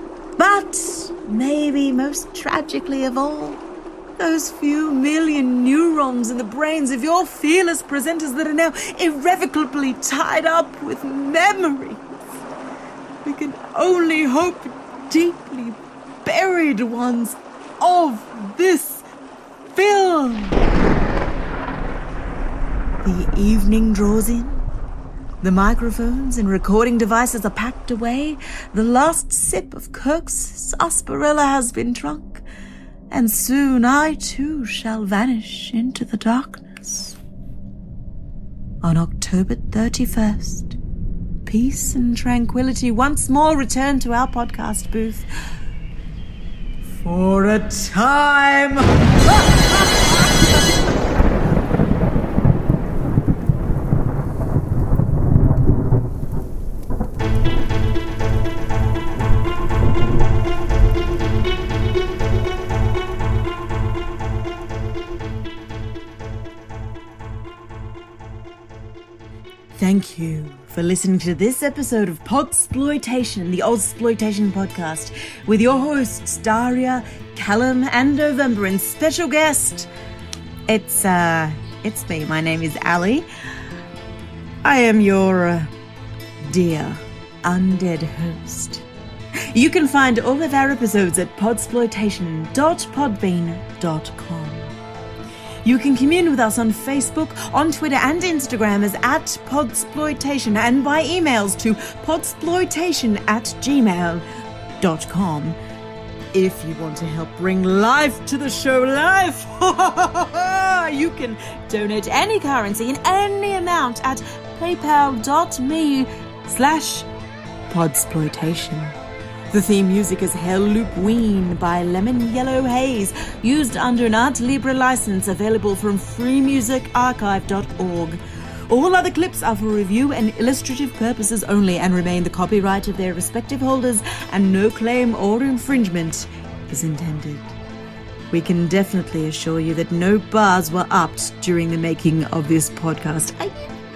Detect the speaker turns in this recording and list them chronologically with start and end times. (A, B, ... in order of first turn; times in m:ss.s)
0:00.4-0:03.6 A
0:04.2-0:12.0 A
0:13.2-0:19.0 A
0:19.7-0:20.7 A
0:23.0-0:24.6 A
0:25.4-0:32.4 A
0:33.1-0:37.2 A
0:38.8-0:40.8 A
0:41.4-0:45.2 A
0:46.9-0:50.3 A
1:09.7-1:19.9 A
1:20.7-1:23.2 A
1:24.6-1:25.7 A
1:26.5-1:28.8 A
1:29.5-1:34.7 A
1:35.6-1:44.2 A
1:44.8-1:45.6 A
1:46.3-1:57.1 A
1:57.7-1:58.9 A
1:59.5-2:17.5 A
2:18.3-2:23.7 A